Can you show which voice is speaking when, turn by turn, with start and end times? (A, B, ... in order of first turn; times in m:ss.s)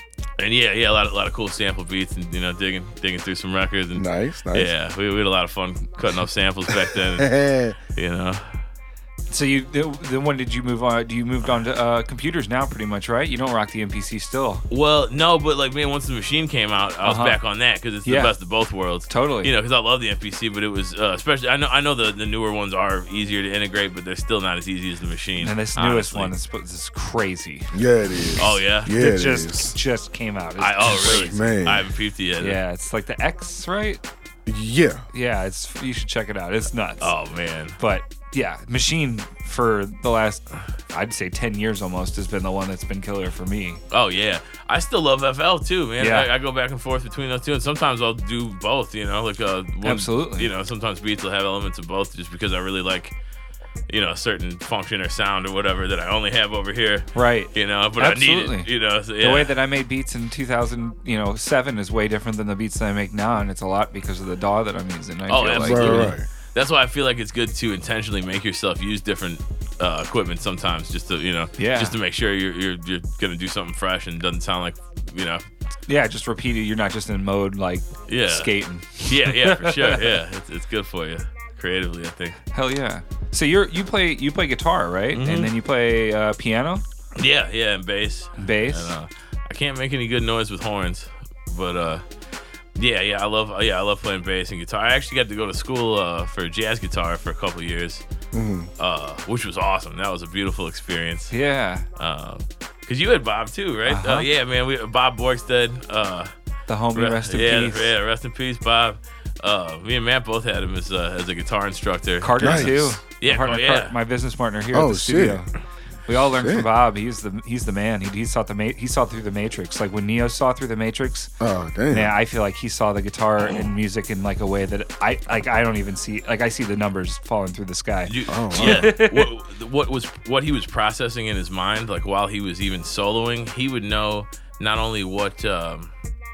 0:00.4-0:07.3 A
0:03.9-0:04.7 B
0:06.8-0:07.8 B
0:07.9-0:08.6 A
0:09.3-0:14.6 C
0:14.7-0:26.3 A
0:17.0-0:17.4 C
0:18.0-0:18.3 C
0:19.1-0:19.5 C
0:25.4-0:27.7 C
0:27.7-0:29.8 B
0:28.4-0:28.9 A
0:28.9-0:31.3 C
0:30.6-0:32.6 A
0:31.0-0:31.9 B
0:32.4-0:34.0 C
0:34.4-0:35.0 B
0:35.1-0:37.1 C
0:37.0-0:37.8 A
0:37.8-0:43.8 C
0:43.9-0:53.1 A
0:46.0-0:46.3 C
0:49.8-0:50.5 C
0:53.9-0:59.5 A
0:57.1-0:58.7 C
0:59.2-1:06.1 C
1:05.3-1:15.4 A
1:05.6-1:06.2 B
1:11.6-1:12.0 C
1:15.9-1:20.2 C
1:18.1-1:18.5 A
1:19.0-1:22.4 A
1:22.5-1:26.8 C
1:25.1-1:25.5 A
1:27.2-1:32.0 A
1:28.4-1:29.0 C
1:32.8-1:38.0 A
1:38.3-1:38.7 B
1:38.8-1:41.3 A
1:41.3-1:41.8 C
1:42.0-1:46.3 A
1:43.9-1:44.3 C
1:46.7-1:47.9 C
1:46.9-1:53.9 A
1:52.2-1:55.4 C
1:52.4-1:52.9 B
1:54.7-1:55.4 B
1:56.1-2:01.3 C
1:56.4-1:56.7 B
2:01.4-2:02.2 B
2:01.9-2:09.3 C
2:08.1-2:15.9 A
2:08.3-2:08.9 B